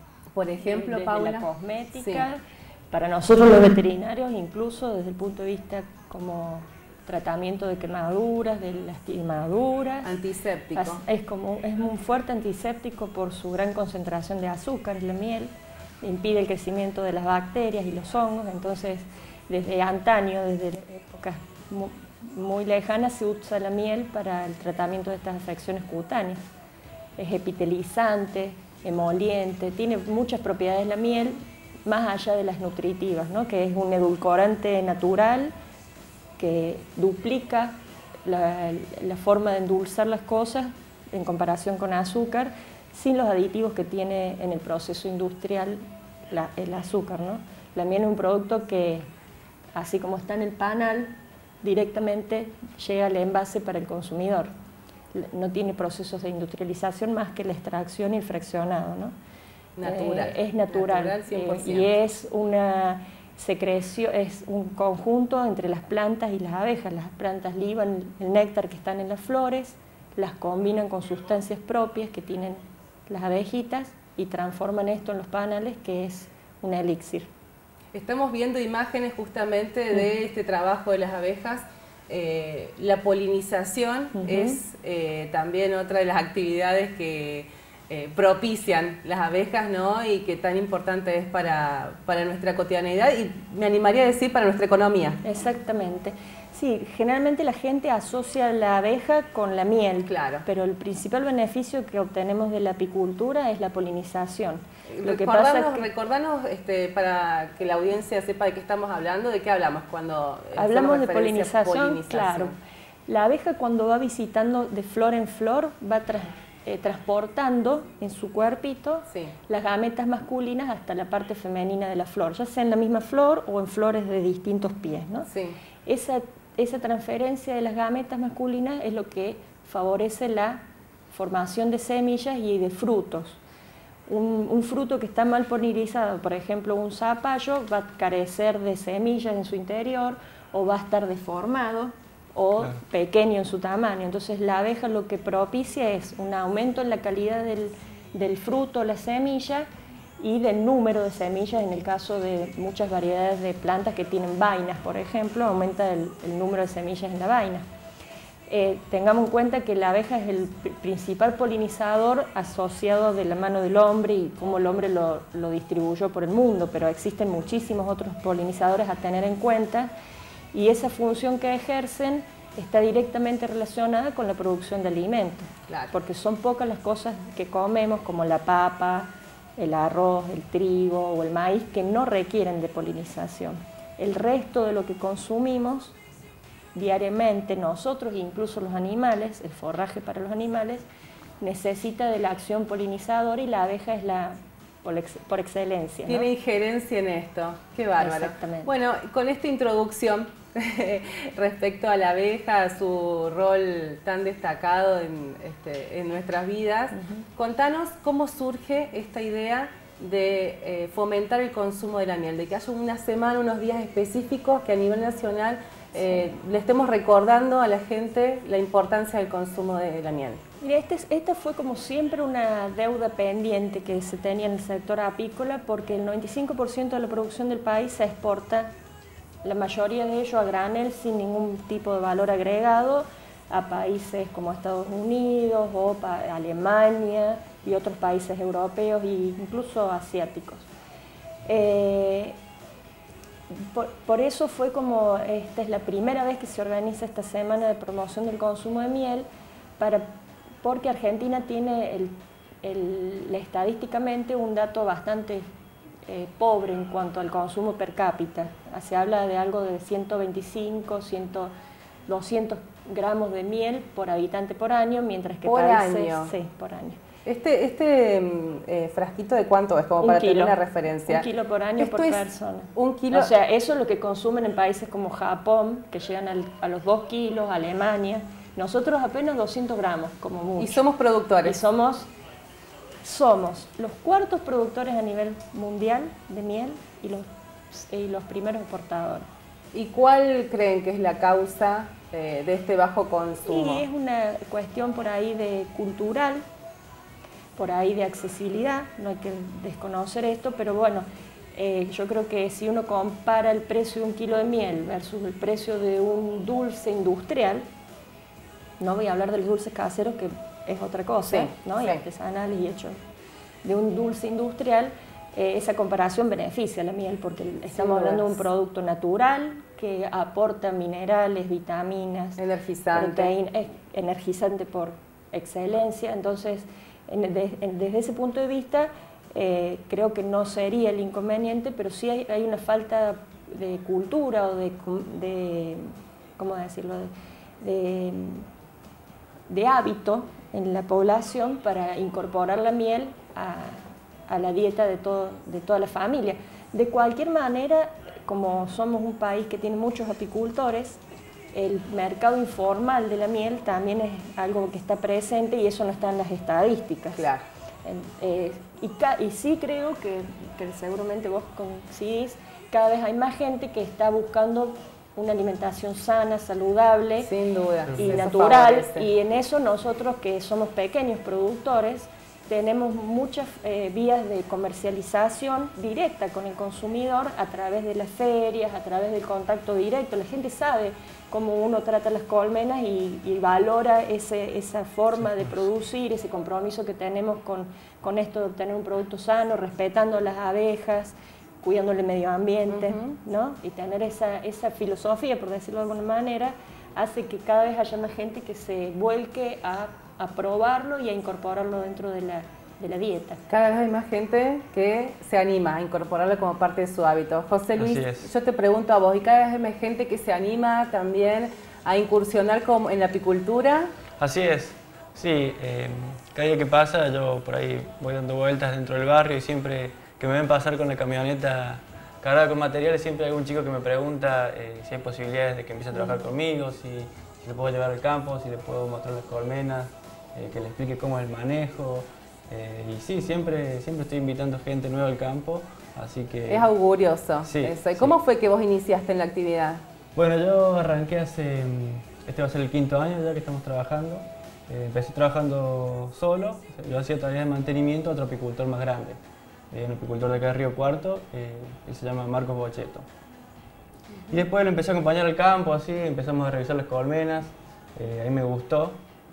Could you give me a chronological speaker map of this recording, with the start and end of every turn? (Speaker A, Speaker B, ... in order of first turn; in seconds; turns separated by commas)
Speaker A: 0.3-2.2, Speaker B: 0.6-2.4, Speaker B: 2.9-10.1, Speaker A: 10.0-11.0, Speaker B: 10.8-26.4, Speaker B: 27.2-35.5, Speaker B: 36.4-37.7, Speaker B: 38.2-49.1, Speaker B: 49.7-54.5, Speaker B: 55.1-59.1, Speaker A: 59.8-61.9, Speaker B: 59.8-77.3, Speaker A: 77.9-95.2, Speaker B: 84.2-84.6, Speaker B: 95.2-105.9, Speaker A: 100.0-100.4, Speaker A: 104.9-112.5, Speaker B: 110.5-112.5, Speaker B: 113.1-125.3, Speaker A: 125.3-125.5, Speaker B: 125.8-133.4, Speaker B: 134.1-149.7, Speaker B: 150.2-157.6, Speaker B: 158.5-169.9, Speaker B: 170.5-185.9, Speaker A: 175.7-175.9, Speaker B: 186.7-190.8, Speaker B: 191.4-196.3, Speaker A: 196.1-220.4, Speaker B: 198.0-198.7, Speaker B: 206.9-207.2, Speaker B: 220.6-228.7, Speaker B: 229.4-240.7, Speaker B: 241.4-242.3, Speaker B: 243.5-249.2, Speaker B: 249.8-250.1, Speaker B: 250.6-255.4, Speaker B: 256.1-261.5, Speaker B: 262.1-267.0, Speaker A: 265.4-266.3, Speaker A: 267.2-271.2, Speaker B: 270.0-280.8, Speaker A: 271.8-272.2, Speaker A: 272.7-273.3, Speaker A: 280.6-281.6, Speaker B: 281.4-282.1, Speaker B: 283.0-289.2, Speaker A: 289.7-293.8, Speaker B: 293.4-296.4, Speaker B: 297.6-307.6, Speaker B: 308.8-312.9, Speaker A: 311.3-312.0, Speaker B: 313.6-322.4, Speaker A: 317.7-318.4, Speaker A: 322.4-323.3, Speaker B: 322.9-337.1, Speaker B: 337.6-338.4, Speaker B: 339.5-351.0, Speaker B: 351.5-357.3, Speaker A: 357.1-357.4, Speaker B: 357.8-367.3, Speaker A: 367.2-369.1, Speaker C: 367.9-368.2, Speaker B: 367.9-403.4, Speaker A: 392.7-393.1, Speaker A: 403.5-413.9, Speaker C: 407.8-408.3, Speaker C: 414.2-436.7, Speaker A: 436.5-439.8, Speaker C: 437.4-438.1, Speaker C: 440.1-449.2, Speaker C: 449.7-453.1, Speaker C: 454.3-459.0